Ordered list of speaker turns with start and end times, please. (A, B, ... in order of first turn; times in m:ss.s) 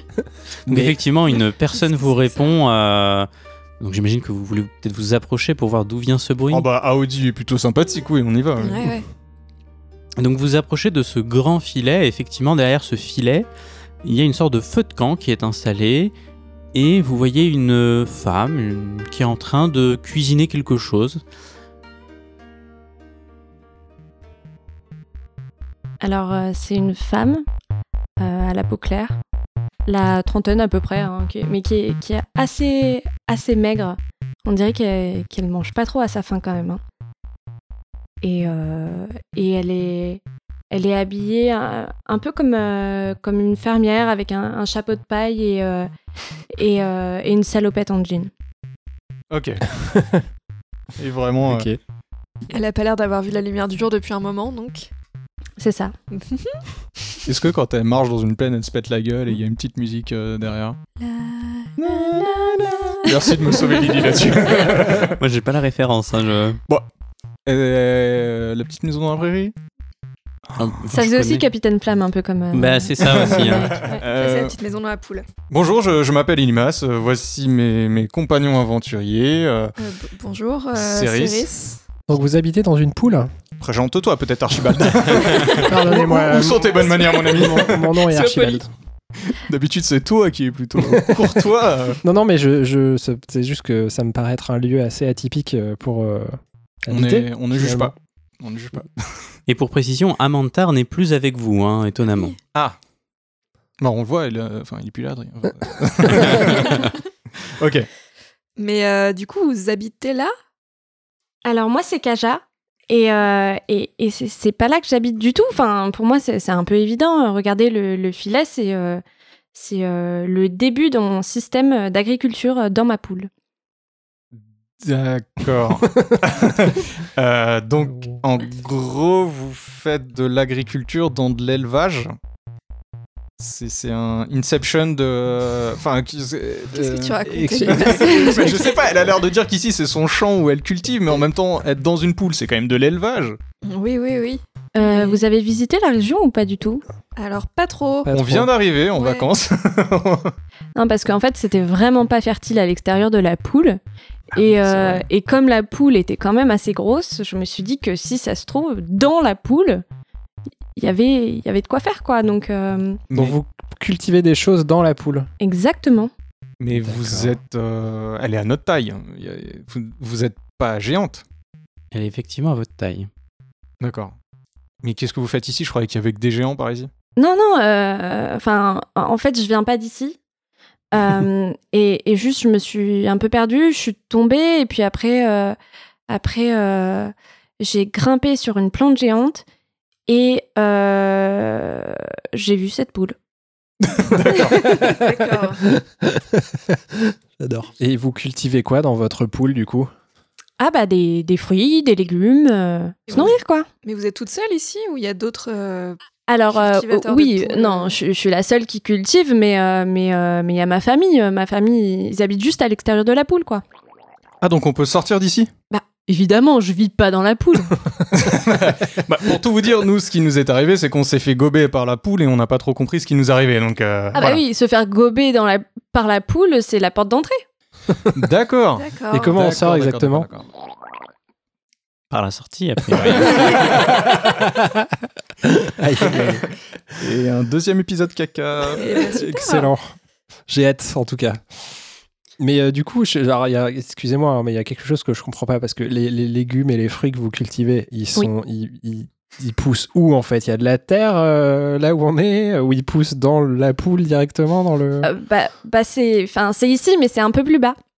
0:00.7-0:00.9 A
0:00.7-0:03.3 B
0:01.7-0:02.6 C
0:03.8-0:06.6 B
0:06.5-0:08.9 D
0:08.6-0:09.0 C
0:10.2-0:13.5 B
0:14.0-0:16.1 B
0:16.7-0:21.2 B
0:26.0-0:27.4 E
0:28.2-0:29.2 E
0:29.8-0:36.8 E
0:38.2-0:45.9 E
0:46.5-0:48.3 E
0:49.3-0:49.7 D
0:49.8-0:50.2 A
0:51.0-0:51.7 D
0:51.4-0:51.8 A
0:52.5-0:54.9 C
0:55.6-0:55.9 E
0:56.1-0:57.2 C
0:57.2-1:00.8 D
1:01.0-1:02.2 C
1:01.8-1:05.2 D
1:04.6-1:06.6 B
1:07.4-1:09.5 D
1:10.5-1:10.8 D
1:10.6-1:11.5 B
1:10.9-1:14.0 E
1:12.5-1:13.8 B
1:13.0-1:14.6 D
1:14.0-1:15.2 C
1:15.5-1:19.7 D
1:19.8-1:21.8 C
1:20.8-1:21.5 D
1:22.1-1:23.3 A
1:23.6-1:27.9 D
1:25.3-1:28.6 C
1:25.5-1:28.7 A
1:29.2-1:32.0 D
1:30.8-1:31.4 A
1:32.0-1:37.9 A
1:36.9-1:39.2 D
1:39.5-1:42.4 B
1:43.8-1:47.9 D
1:48.6-1:50.3 C
1:51.4-1:59.0 E
1:59.5-2:03.3 E
2:04.3-2:12.1 D
2:13.4-2:17.0 D
2:16.8-2:18.3 A
2:16.8-2:18.9 C
2:17.6-2:23.4 D
2:23.6-2:25.2 C
2:24.7-2:26.8 E
2:27.2-2:28.2 C
2:28.1-2:28.5 A
2:28.1-2:30.3 D
2:28.9-2:29.3 C
2:30.8-2:33.8 E
2:34.3-2:39.8 E
2:34.5-2:35.0 D
2:40.8-2:43.0 E
2:43.1-2:43.4 D
2:43.1-2:45.3 A
2:45.4-2:46.1 E
2:46.6-2:51.2 D
2:46.8-2:47.4 A
2:51.9-2:53.1 B
2:53.8-2:54.1 D
2:54.8-2:56.9 D
2:57.2-3:00.2 E
3:00.9-3:05.6 E
3:06.1-3:09.4 E
3:10.1-3:13.2 E
3:13.8-3:14.7 D
3:14.5-3:19.9 A
3:14.5-3:15.6 C
3:20.6-3:23.7 E
3:23.1-3:28.0 C
3:26.3-3:33.6 E
3:34.4-3:35.5 D
3:35.7-3:37.8 E
3:38.1-3:44.4 D
3:44.1-3:47.4 E
3:48.1-3:50.5 D
3:48.8-3:49.5 C
3:49.1-3:50.3 A
3:52.1-3:53.7 B
3:52.9-3:53.8 D
3:53.0-3:56.4 A
3:56.0-3:56.4 D
3:57.0-3:59.2 D
3:58.7-3:59.7 C
3:58.9-3:59.9 A
4:00.5-4:01.6 A
4:02.4-4:15.1 A
4:15.0-4:17.8 E